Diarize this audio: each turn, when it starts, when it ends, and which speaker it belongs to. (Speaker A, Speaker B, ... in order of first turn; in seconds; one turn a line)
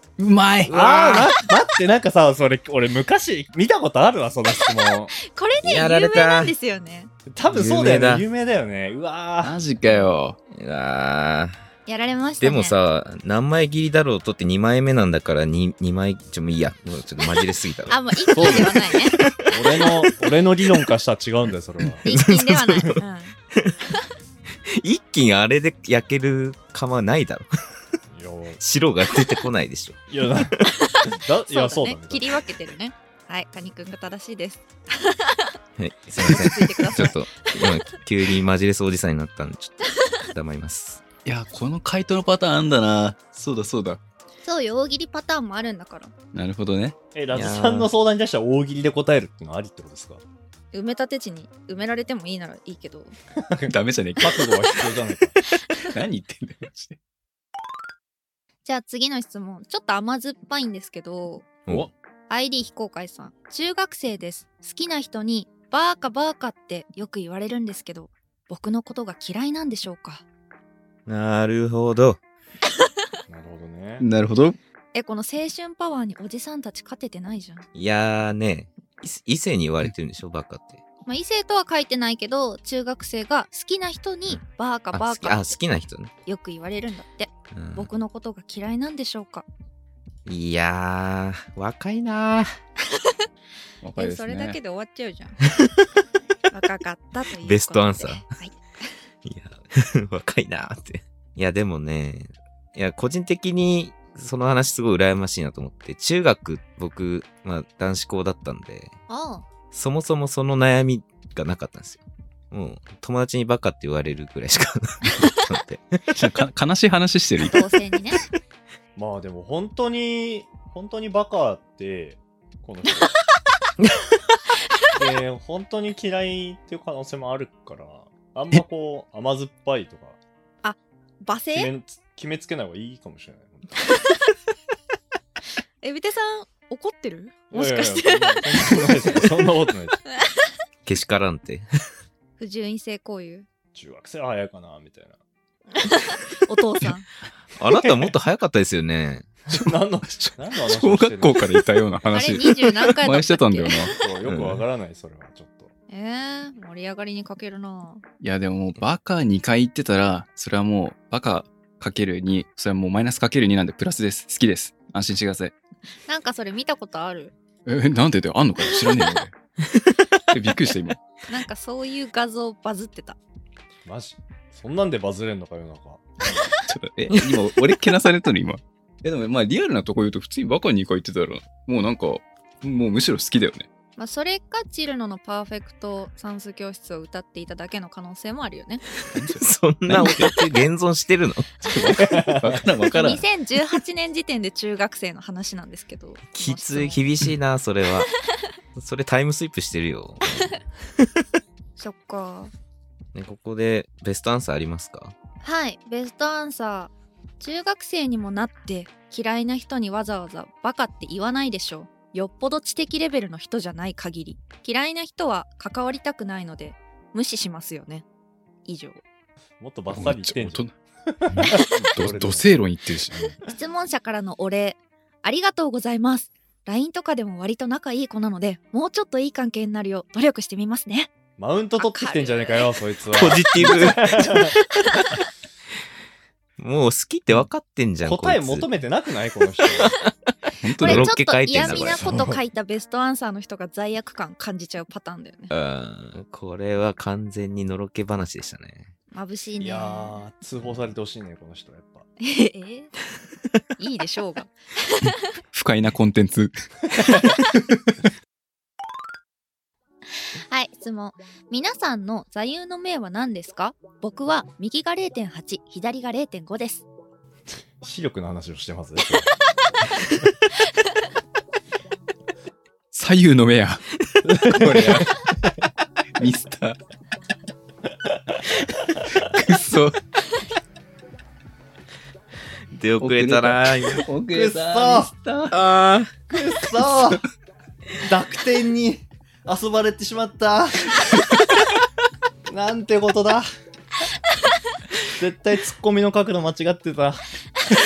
Speaker A: 0.2-0.8
Speaker B: 0.7-1.3
Speaker C: 0.7-5.1
Speaker D: 4.5-7.1
Speaker B: 5.6-6.5
Speaker C: 7.3-9.5
Speaker B: 7.5-8.3
Speaker A: 9.4-10.4
Speaker B: 10.6-11.6
Speaker D: 11.9-12.8
Speaker B: 12.4-19.9
Speaker D: 17.9-19.2
Speaker C: 18.4-18.8
Speaker C: 19.5-22.1
Speaker B: 22.1-23.0
Speaker D: 22.1-23.4
Speaker B: 23.6-23.9
Speaker B: 24.7-27.5
Speaker C: 28.1-28.6
Speaker B: 28.6-30.7
Speaker C: 30.1-30.6
Speaker D: 30.8-35.5
Speaker C: 31.1-32.3
Speaker B: 35.8-41.0
Speaker D: 36.1-37.9
Speaker A: 41.2-44.0
Speaker D: 44.4-46.1
Speaker A: 46.3-47.0
Speaker C: 47.1-50.2
Speaker B: 47.3-47.9
Speaker D: 50.7-53.1
Speaker C: 53.4-55.4
Speaker A: 53.7-54.9
Speaker A: 55.7-57.0
Speaker D: 58.6-61.6
Speaker D: 62.3-70.2
Speaker B: 71.1-72.2
Speaker C: 73.3-74.1
Speaker A: 74.0-74.6
Speaker D: 74.9-77.7
Speaker B: 77.8-80.8
Speaker D: 81.1-85.5
Speaker B: 84.3-86.1
Speaker D: 86.3-89.5
Speaker B: 87.5-87.9
Speaker B: 90.3-92.5
Speaker A: 93.8-94.6
Speaker D: 94.0-95.4
Speaker D: 96.5-98.6
Speaker B: 97.4-98.2
Speaker B: 99.2-108.9
Speaker D: 109.1-109.5
Speaker B: 109.7-116.0
Speaker A: 116.1-117.7
Speaker D: 117.4-118.3
Speaker C: 119.0-123.1
Speaker C: 125.0-130.2
Speaker D: 130.6-131.7
Speaker C: 131.5-133.9
Speaker D: 135.8-139.3
Speaker C: 137.5-140.0
Speaker B: 140.9-141.7
Speaker D: 142.4-143.5
Speaker C: 143.8-145.2
Speaker D: 145.8-147.1
Speaker B: 147.6-149.3
Speaker C: 147.8-148.1
Speaker C: 149.5-151.4
Speaker A: 150.3-153.9
Speaker D: 152.1-154.0
Speaker C: 154.0-155.7
Speaker B: 154.2-154.6
Speaker D: 155.9-158.0
Speaker A: 158.2-165.5
Speaker D: 166.1-167.3
Speaker A: 167.7-169.3
Speaker B: 169.7-170.2
Speaker A: 170.3-171.0
Speaker D: 171.3-173.2
Speaker C: 173.8-176.0
Speaker A: 176.7-183.7
Speaker D: 184.0-188.8
Speaker A: 189.0-190.4
Speaker B: 189.4-191.6
Speaker D: 191.7-192.1
Speaker A: 191.7-193.2
Speaker C: 192.0-192.6
Speaker D: 192.9-197.0
Speaker B: 196.3-198.1
Speaker B: 198.8-200.6
Speaker D: 200.2-200.6
Speaker D: 201.8-202.5
Speaker B: 203.1-205.1
Speaker D: 205.4-218.1
Speaker D: 218.7-219.0
Speaker C: 219.6-222.6
Speaker A: 219.9-220.7
Speaker A: 221.4-223.4
Speaker D: 223.4-231.1
Speaker C: 231.4-234.6
Speaker D: 231.8-232.7
Speaker B: 233.2-234.1
Speaker D: 233.6-234.0
Speaker D: 234.5-235.1
Speaker B: 236.6-238.7
Speaker C: 238.0-239.9
Speaker A: 240.6-241.1
Speaker B: 240.8-242.0
Speaker D: 240.8-245.5
Speaker C: 241.6-242.4
Speaker B: 245.5-248.9
Speaker D: 249.1-250.2
Speaker C: 249.6-252.1
Speaker D: 252.2-252.9
Speaker D: 253.8-255.4
Speaker A: 255.5-257.3
Speaker D: 260.4-266.9
Speaker C: 267.8-269.3
Speaker A: 272.9-273.8
Speaker B: 274.1-274.5
Speaker C: 274.2-275.1
Speaker A: 274.4-275.1
Speaker A: 276.2-276.8
Speaker A: 279.1-280.0
Speaker B: 282.7-284.1
Speaker A: 283.0-285.6
Speaker C: 284.3-285.1
Speaker B: 285.5-286.1
Speaker C: 286.3-287.2
Speaker A: 286.9-287.2
Speaker C: 288.0-291.1
Speaker C: 292.5-293.5
Speaker C: 295.2-297.2